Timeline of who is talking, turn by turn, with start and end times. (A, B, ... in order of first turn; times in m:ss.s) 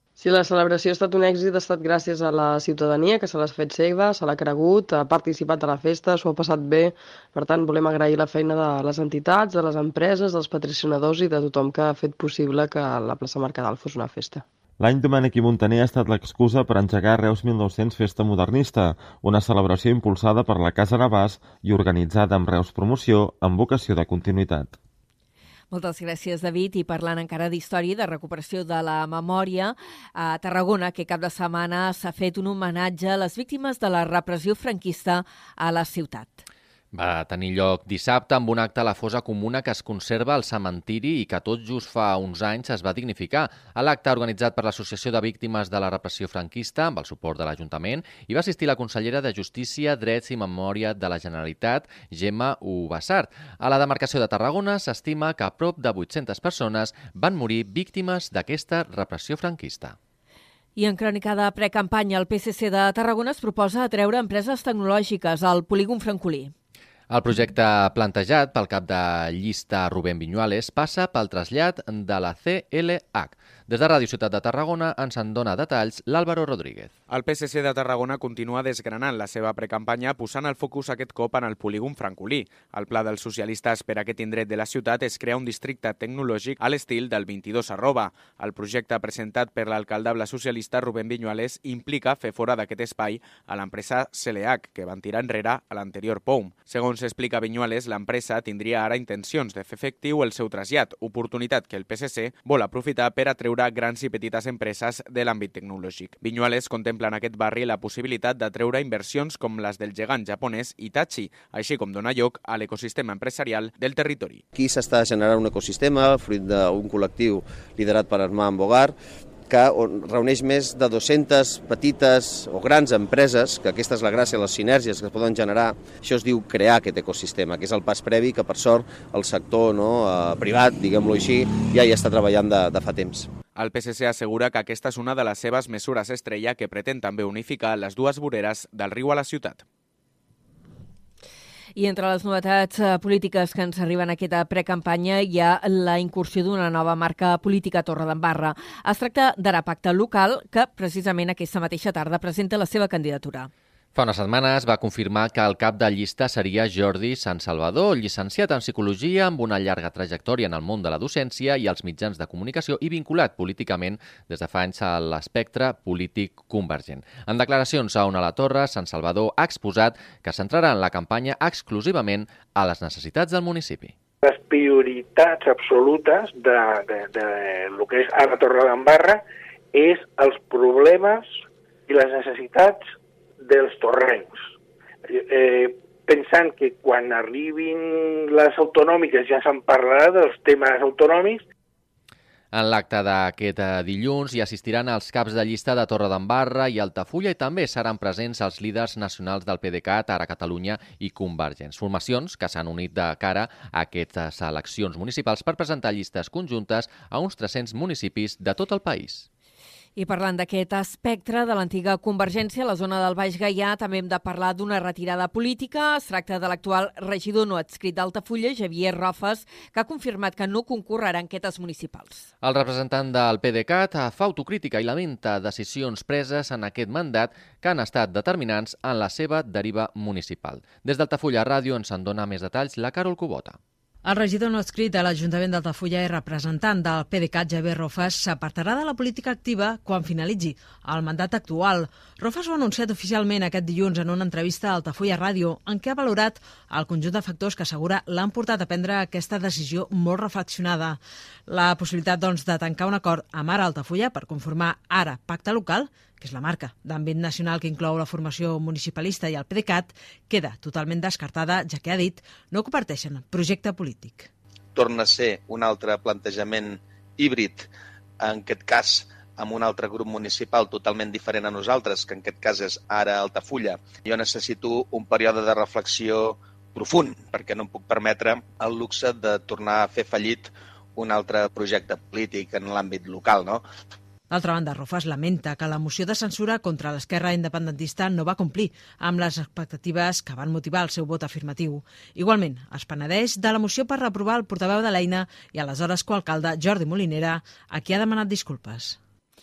0:00.2-0:14.4 A
0:14.8-0:24.8 B
0:25.7-0:36.4 C
0:36.9-1:00.0 D
1:00.8-1:06.5 C
1:07.1-1:16.9 D
1:17.1-1:54.4 E
1:54.5-1:58.9 F
1:59.5-2:13.3 F
2:13.5-2:19.6 E
2:21.8-2:33.5 C
2:33.9-2:53.9 D
2:54.2-3:01.3 G
3:01.9-3:02.8 G
3:03.4-3:04.5 G
3:05.1-3:11.4 G
3:12.5-3:29.2 D
3:30.0-3:42.2 C
3:42.4-3:53.6 D
3:54.0-4:24.3 H
4:24.7-4:27.7 I
4:28.2-4:43.6 I
4:44.3-4:59.0 H